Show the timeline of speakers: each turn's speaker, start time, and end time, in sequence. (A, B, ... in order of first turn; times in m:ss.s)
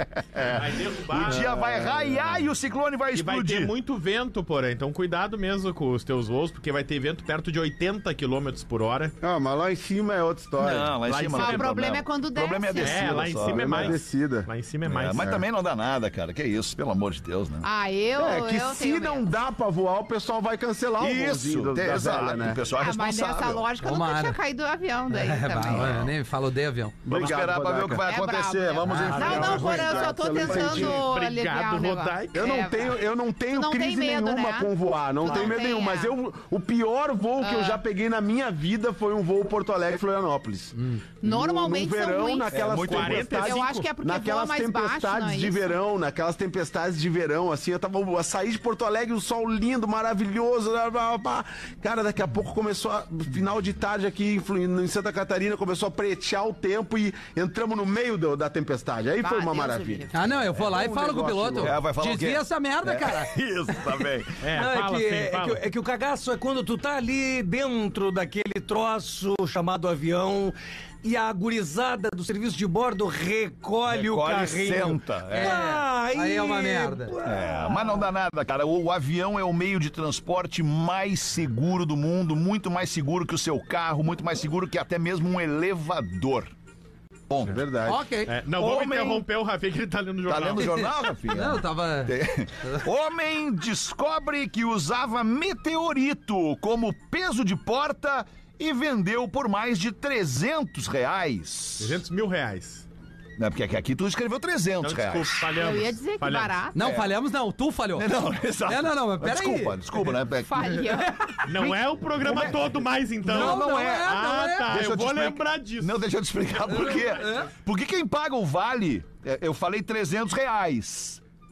0:00.4-0:01.5 A
0:01.1-0:03.7 B
0:01.1-0:02.5 C
0:03.1-0:09.1 A
0:09.2-0:11.0 C
0:10.6-0:14.0 B
0:11.0-0:11.7 A
0:11.3-0:13.2 D
0:12.8-0:15.3 A
0:13.2-0:14.5 C
0:14.8-0:17.7 B
0:15.1-0:15.4 C
0:17.6-0:19.3 D
0:18.2-0:22.6 C
0:21.0-0:23.6 B
0:22.7-0:26.0 D
0:23.8-0:24.4 E
0:25.1-0:27.0 E
0:25.7-0:26.1 B
0:27.0-0:28.0 C
0:27.0-0:30.7 B
0:28.0-0:33.0 D
0:28.8-0:29.1 E
0:29.0-0:30.8 F
0:29.2-0:31.1 C
0:30.7-0:32.4 A
0:32.3-1:01.8 C
0:33.5-0:36.1 D
0:37.4-0:37.8 D
0:41.2-0:42.6 D
0:42.5-0:43.4 B
0:42.5-0:43.9 A
0:43.4-0:45.7 D
0:59.2-1:00.3 D
1:00.1-1:03.3 E
1:01.6-1:04.5 B
1:04.4-1:05.6 A
1:04.5-1:18.0 F
1:13.9-1:15.6 B
1:15.3-1:17.1 E
1:17.2-1:26.5 B
1:27.3-1:27.6 B
1:27.4-1:28.0 C
1:27.9-1:28.3 E
1:28.3-1:30.9 A
1:28.6-1:29.2 B
1:30.3-1:42.0 B
1:30.6-1:32.8 E
1:41.8-1:42.8 A
1:43.4-1:45.5 B
1:44.8-1:46.6 A
1:45.5-1:46.8 D
1:46.7-1:49.8 E
1:46.8-1:47.1 B
1:48.0-1:50.6 B
1:50.4-1:51.4 D
1:51.0-1:51.4 E
1:51.4-1:56.0 A
1:51.6-1:52.7 B
1:53.2-1:54.1 B
1:53.3-1:54.7 E
1:54.7-2:01.2 B
1:56.6-1:57.5 E